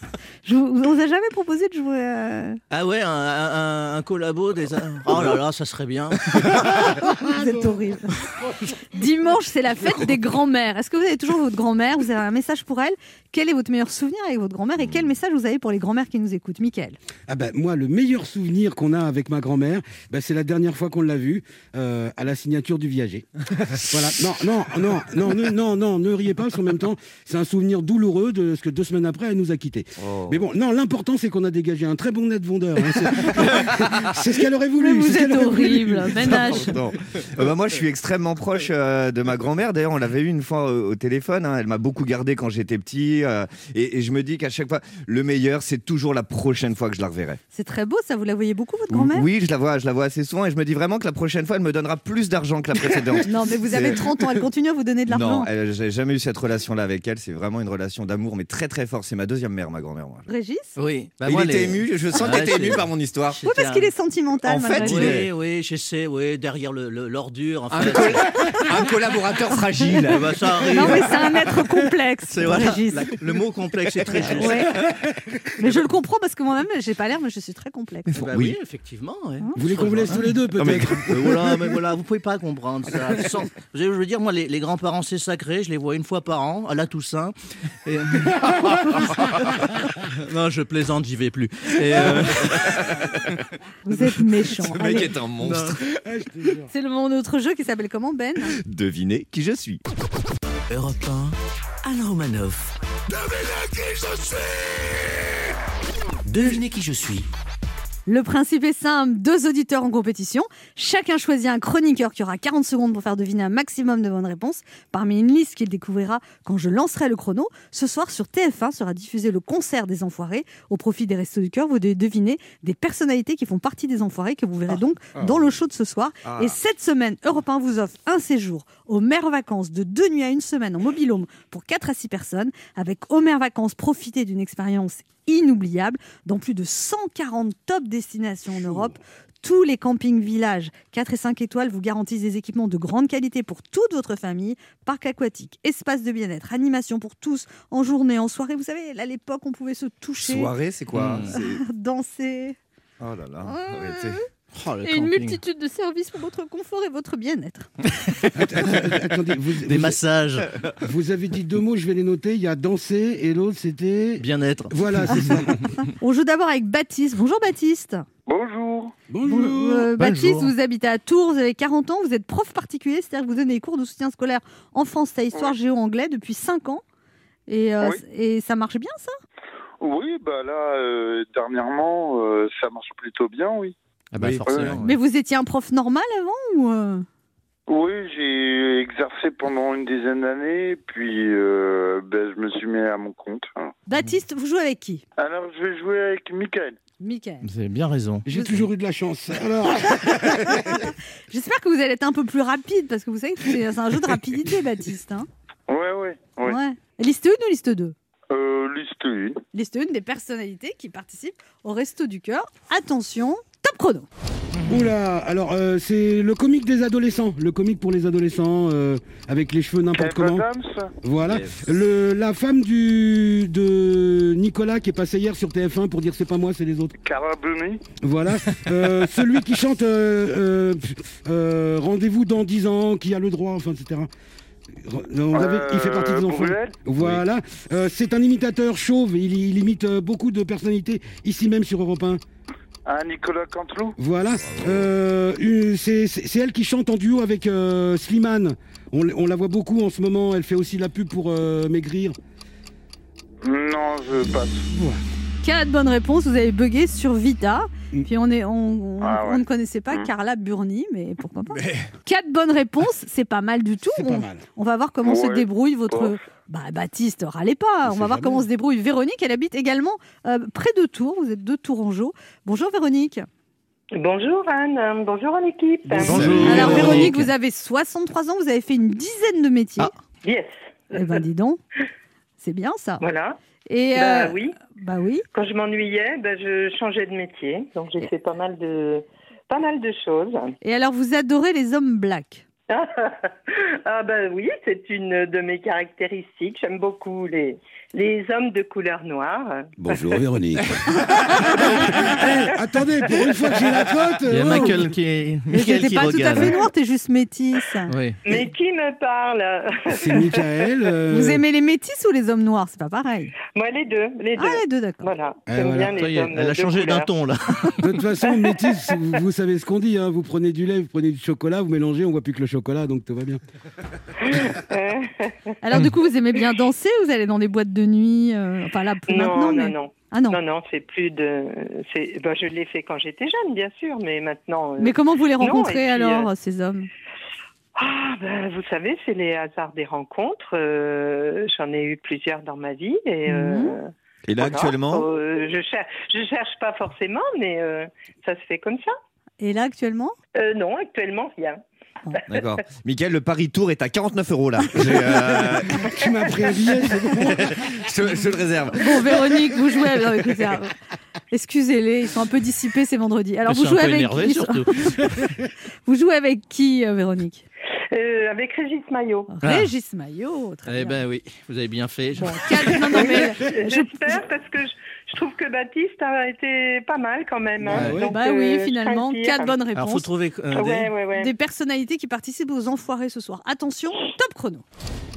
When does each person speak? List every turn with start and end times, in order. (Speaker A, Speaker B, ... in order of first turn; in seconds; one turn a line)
Speaker A: 0.4-2.6
Speaker B: 2.7-6.7
Speaker A: 7.0-8.2
Speaker A: 8.9-17.0
Speaker C: 17.3-36.5
Speaker D: 30.0-30.4
Speaker A: 34.8-36.7
Speaker D: 36.3-47.4
Speaker A: 47.5-49.2
Speaker D: 48.9-54.3
Speaker A: 53.2-55.5
Speaker D: 55.1-60.2
Speaker A: 60.3-60.7
Speaker B: 60.8-63.9
Speaker D: 61.2-63.4
Speaker A: 63.4-65.2
Speaker D: 64.4-65.3
Speaker B: 64.8-68.3
Speaker D: 67.7-70.4
Speaker B: 70.0-71.1
Speaker A: 70.7-73.1
Speaker B: 72.3-74.8
Speaker A: 74.3-74.8
Speaker A: 75.6-78.1
Speaker B: 78.1-87.3
Speaker D: 78.2-78.5
Speaker C: 79.5-81.6
Speaker B: 87.8-89.3
Speaker B: 90.2-92.8
Speaker D: 92.0-93.1
Speaker A: 93.8-95.1
Speaker D: 94.7-95.9
Speaker C: 95.4-96.7
Speaker A: 96.7-98.5
Speaker D: 98.6-99.8
Speaker E: 100.7-102.7
Speaker E: 106.3-107.3
Speaker A: 108.1-150.5
Speaker D: 126.2-126.5
Speaker C: 138.6-138.9
Speaker D: 150.2-151.6
Speaker B: 150.9-151.3
Speaker A: 151.3-152.6
Speaker D: 153.0-154.2
Speaker A: 153.4-154.2
Speaker B: 154.5-155.4
Speaker A: 154.8-157.7
Speaker B: 158.2-158.8
Speaker C: 158.3-160.0
Speaker B: 159.7-160.5
Speaker C: 160.8-165.7
Speaker B: 164.2-165.4
Speaker A: 166.0-168.0
Speaker F: 168.3-168.9
Speaker C: 169.1-169.9
Speaker A: 169.3-176.8
Speaker B: 170.0-170.5
Speaker A: 177.5-179.2
Speaker F: 179.8-183.7
Speaker B: 184.1-184.9
Speaker F: 184.4-184.8
Speaker A: 184.8-187.1
Speaker F: 187.7-193.7
Speaker A: 193.9-195.0
Speaker F: 195.2-196.8
Speaker A: 197.0-197.5
Speaker B: 197.4-198.6
Speaker C: 198.2-200.9
Speaker A: 200.5-205.3
Speaker F: 205.7-206.6
Speaker A: 206.4-207.9
Speaker F: 208.3-209.4
Speaker A: 209.5-214.1
Speaker C: 214.7-220.4
Speaker F: 219.9-220.9
Speaker C: 221.0-226.9
Speaker F: 227.0-227.8
Speaker C: 228.0-234.1
Speaker C: 234.8-242.2
Speaker F: 235.3-236.8
Speaker F: 242.8-243.9
Speaker C: 244.0-252.2
Speaker D: 244.4-244.8
Speaker F: 253.4-254.7
Speaker C: 254.7-255.0
Speaker A: 255.4-273.2
Speaker F: 259.0-260.1
Speaker C: 263.9-264.4
Speaker F: 265.0-266.2
Speaker C: 267.9-268.4
Speaker G: 273.9-276.2
Speaker C: 275.9-277.1
Speaker B: 275.9-277.3
Speaker D: 276.0-277.1
Speaker A: 276.4-279.9
Speaker G: 280.2-280.5
Speaker A: 280.9-281.6
Speaker A: 282.4-283.0
Speaker G: 283.0-283.4
Speaker A: 283.7-285.2
Speaker G: 283.9-284.6
Speaker G: 285.3-290.5
Speaker A: 290.6-292.4
Speaker G: 292.7-300.2
Speaker C: 299.8-304.9
Speaker B: 304.3-306.6
Speaker A: 305.5-307.9
Speaker B: 307.9-308.2
Speaker G: 308.2-310.5
Speaker C: 309.9-311.4
Speaker A: 311.1-313.3
Speaker G: 313.5-317.1
Speaker A: 314.4-315.1
Speaker C: 315.5-315.9
Speaker B: 315.9-317.8
Speaker C: 317.8-323.4
Speaker G: 324.2-325.3
Speaker A: 325.6-330.4
Speaker G: 329.1-336.3
Speaker A: 334.8-336.9
Speaker G: 337.8-348.9
Speaker A: 343.3-343.8
Speaker D: 344.3-345.1
Speaker A: 349.4-350.1
Speaker G: 350.4-351.6
Speaker D: 352.3-355.9
Speaker C: 355.4-357.6
Speaker D: 357.2-359.0
Speaker A: 358.7-360.7
Speaker A: 361.3-365.0
Speaker B: 363.5-365.1
Speaker A: 365.9-367.4
Speaker G: 367.9-369.3
Speaker A: 369.3-371.0
Speaker B: 369.4-369.7
Speaker B: 370.7-373.1
Speaker A: 372.2-373.9
Speaker G: 372.9-379.6
Speaker C: 377.6-378.1
Speaker B: 377.7-378.0
Speaker A: 378.1-380.1
Speaker B: 379.8-380.9
Speaker G: 380.5-381.3
Speaker A: 381.2-384.6